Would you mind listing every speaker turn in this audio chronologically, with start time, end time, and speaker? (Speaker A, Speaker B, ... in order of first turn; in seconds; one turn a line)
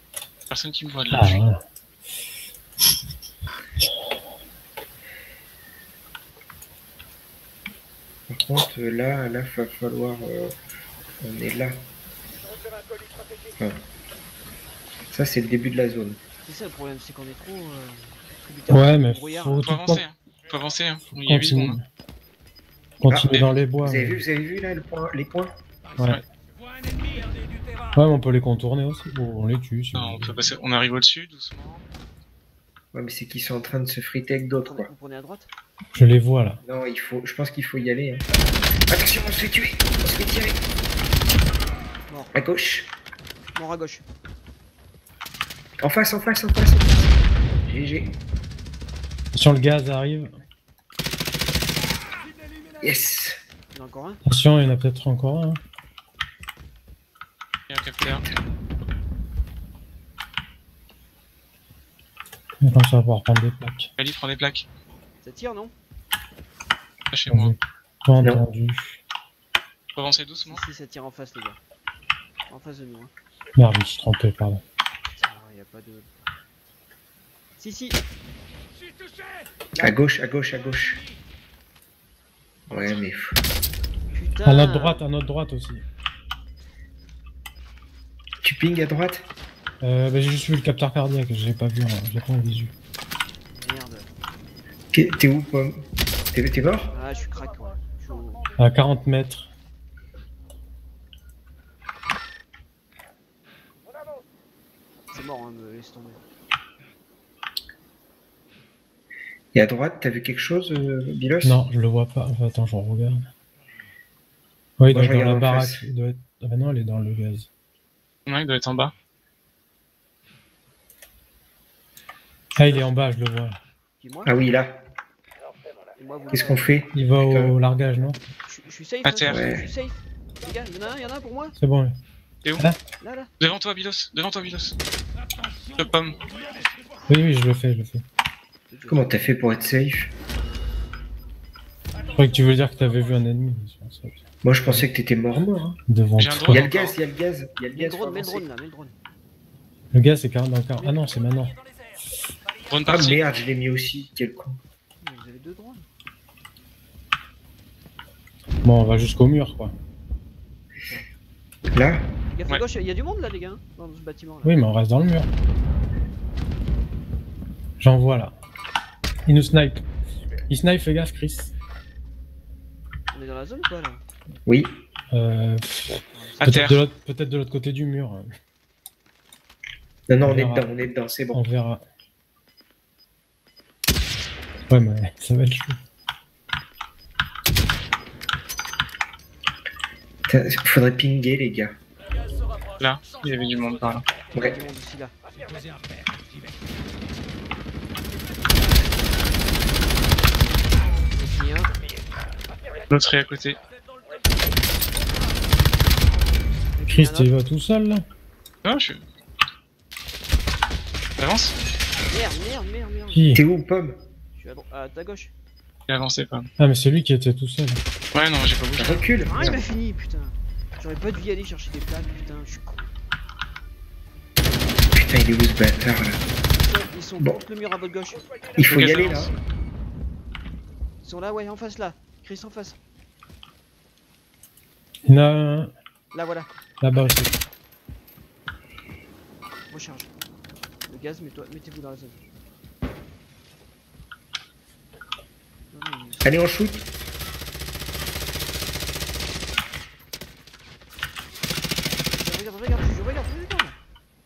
Speaker A: 0.5-1.4
Speaker B: 1.1-1.6
Speaker C: 8.3-10.5
Speaker C: 11.2-11.8
Speaker C: 15.1-16.2
Speaker D: 16.4-19.6
Speaker B: 18.7-20.0
Speaker A: 19.6-21.8
Speaker B: 21.1-21.8
Speaker B: 23.0-24.2
Speaker C: 23.1-25.5
Speaker B: 27.9-30.5
Speaker A: 29.9-31.8
Speaker C: 32.9-34.9
Speaker D: 34.6-35.5
Speaker B: 35.9-36.6
Speaker C: 36.6-38.2
Speaker C: 38.9-40.5
Speaker D: 42.1-42.3
Speaker C: 42.3-42.9
Speaker D: 43.5-44.0
Speaker C: 45.8-47.1
Speaker C: 47.6-48.1
Speaker B: 49.3-50.3
Speaker C: 52.8-53.4
Speaker D: 53.7-54.2
Speaker B: 54.2-55.6
Speaker A: 57.7-58.3
Speaker B: 62.6-63.9
Speaker A: 64.0-64.7
Speaker D: 65.2-65.7
Speaker A: 67.1-67.5
Speaker B: 67.3-69.0
Speaker A: 69.9-70.6
Speaker D: 70.5-71.6
Speaker D: 72.5-73.1
Speaker B: 73.6-74.6
Speaker D: 75.2-76.1
Speaker D: 77.6-78.0
Speaker D: 79.7-80.0
Speaker C: 79.8-81.0
Speaker C: 82.7-83.4
Speaker D: 84.1-85.0
Speaker B: 84.4-85.8
Speaker C: 88.4-89.2
Speaker B: 89.8-92.7
Speaker D: 93.5-94.1
Speaker C: 94.9-95.8
Speaker C: 96.3-96.9
Speaker D: 96.9-98.4
Speaker B: 98.6-99.5
Speaker D: 105.1-106.2
Speaker C: 109.5-111.6
Speaker B: 111.4-113.2
Speaker B: 114.8-117.5
Speaker C: 114.9-115.8
Speaker A: 118.2-118.9
Speaker D: 122.5-122.9
Speaker B: 122.6-123.6
Speaker D: 124.0-124.3
Speaker C: 124.2-124.7
Speaker D: 126.0-126.7
Speaker C: 126.3-127.5
Speaker B: 126.9-128.2
Speaker D: 128.4-131.6
Speaker A: 129.0-129.4
Speaker C: 129.3-129.7
Speaker B: 131.6-131.9
Speaker D: 133.0-133.3
Speaker A: 133.4-134.8
Speaker A: 135.8-136.2
Speaker B: 137.1-138.0
Speaker D: 138.7-139.2
Speaker C: 138.9-140.1
Speaker B: 142.1-146.6
Speaker C: 144.4-145.7
Speaker A: 146.2-147.0
Speaker C: 146.5-148.4
Speaker D: 147.8-148.9
Speaker B: 149.9-151.6
Speaker A: 152.7-153.2
Speaker C: 152.9-154.6
Speaker D: 155.0-155.8
Speaker B: 158.6-159.7
Speaker D: 160.8-161.1
Speaker C: 161.7-162.1
Speaker D: 162.3-164.6
Speaker B: 164.4-165.3
Speaker B: 167.8-168.3
Speaker B: 169.2-169.8
Speaker B: 170.5-171.5
Speaker D: 173.1-174.0
Speaker C: 174.4-174.8
Speaker B: 175.1-178.3
Speaker D: 176.1-176.4
Speaker A: 176.4-176.8
Speaker C: 180.1-181.4
Speaker B: 180.2-180.7
Speaker B: 181.3-181.8
Speaker B: 184.7-185.8
Speaker C: 190.3-191.7
Speaker A: 192.8-194.1
Speaker D: 194.3-195.2
Speaker D: 201.1-201.7
Speaker A: 202.9-203.6
Speaker D: 206.7-207.3
Speaker B: 206.9-208.0
Speaker A: 208.6-209.0
Speaker A: 211.2-211.5
Speaker D: 212.1-213.3
Speaker B: 213.1-213.4
Speaker C: 213.3-214.0
Speaker D: 214.3-215.3
Speaker A: 215.9-216.5
Speaker B: 216.6-217.8
Speaker A: 218.1-219.0
Speaker C: 218.8-219.6
Speaker D: 219.2-222.9
Speaker C: 224.9-226.2
Speaker D: 226.5-228.3
Speaker C: 228.6-229.3
Speaker A: 228.6-229.3
Speaker D: 231.0-232.8
Speaker B: 235.1-235.7
Speaker D: 236.1-236.5
Speaker B: 236.8-237.3
Speaker D: 239.7-240.1
Speaker D: 240.9-242.2
Speaker D: 245.7-246.3
Speaker C: 246.2-246.8
Speaker D: 252.1-253.7